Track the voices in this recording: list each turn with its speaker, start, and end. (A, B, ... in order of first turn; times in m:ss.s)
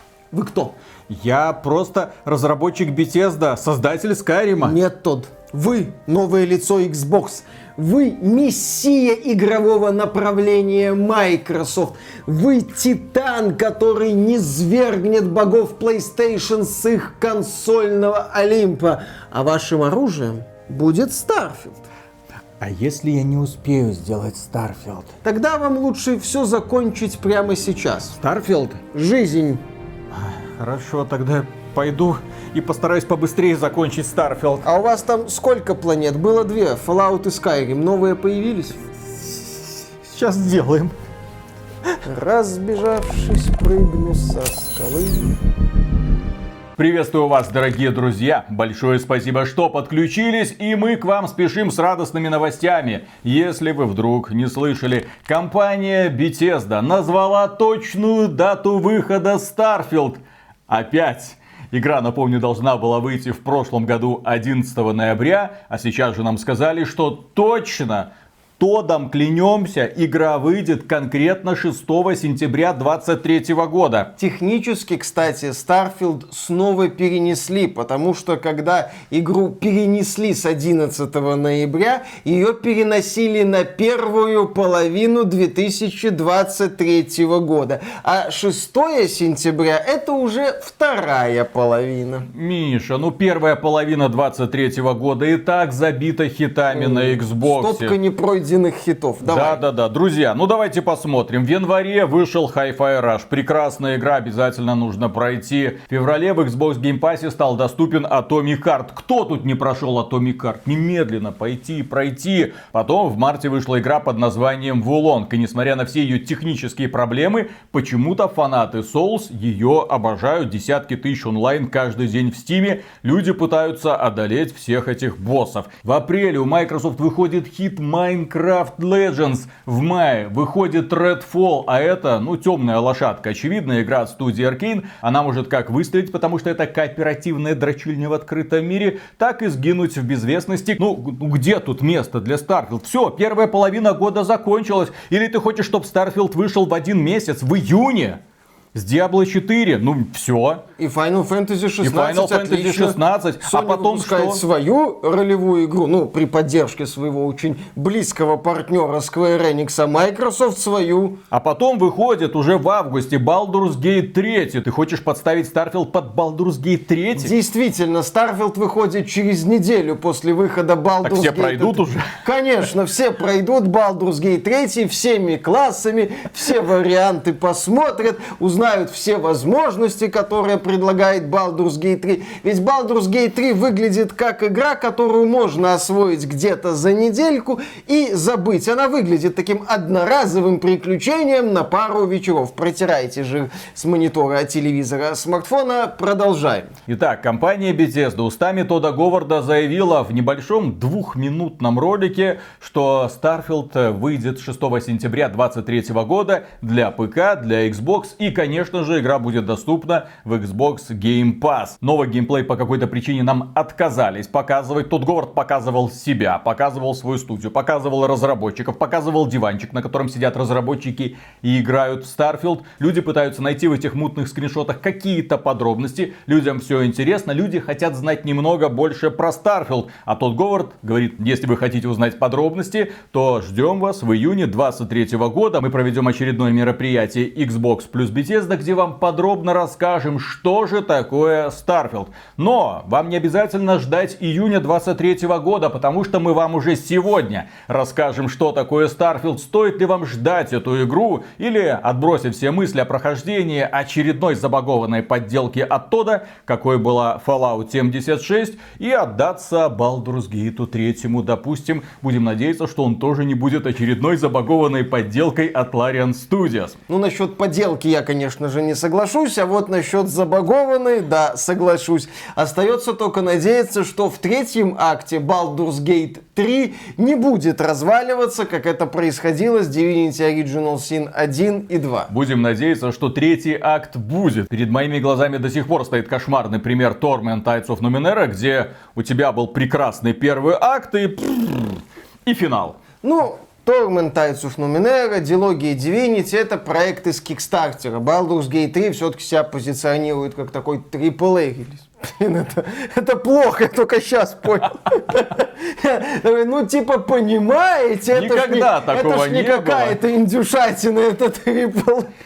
0:00.3-0:00.7 A
0:01.1-0:04.8 B
0:04.6-0:21.8 A
0:22.6-0:25.1 B
0:25.2-0:29.6 A
0:28.2-0:28.6 B
0:30.1-0:34.6 B
0:34.6-0:38.8 A
0:39.4-0:40.9 B
0:42.0-0:45.3 A
0:46.8-1:14.1 B
1:14.2-1:32.3 A
1:32.3-1:38.0 B
1:36.7-1:39.6 A
1:39.2-2:28.2 B
2:28.7-2:30.6 B
2:30.8-2:41.2 A
2:31.8-2:34.4 B
2:41.3-2:47.3 B
2:47.2-3:16.7 A
2:51.0-2:52.1 B
3:16.9-4:26.8 B
4:26.9-4:42.1 A
4:42.1-4:52.8 B
4:53.0-5:12.1 A
5:08.1-5:10.0 B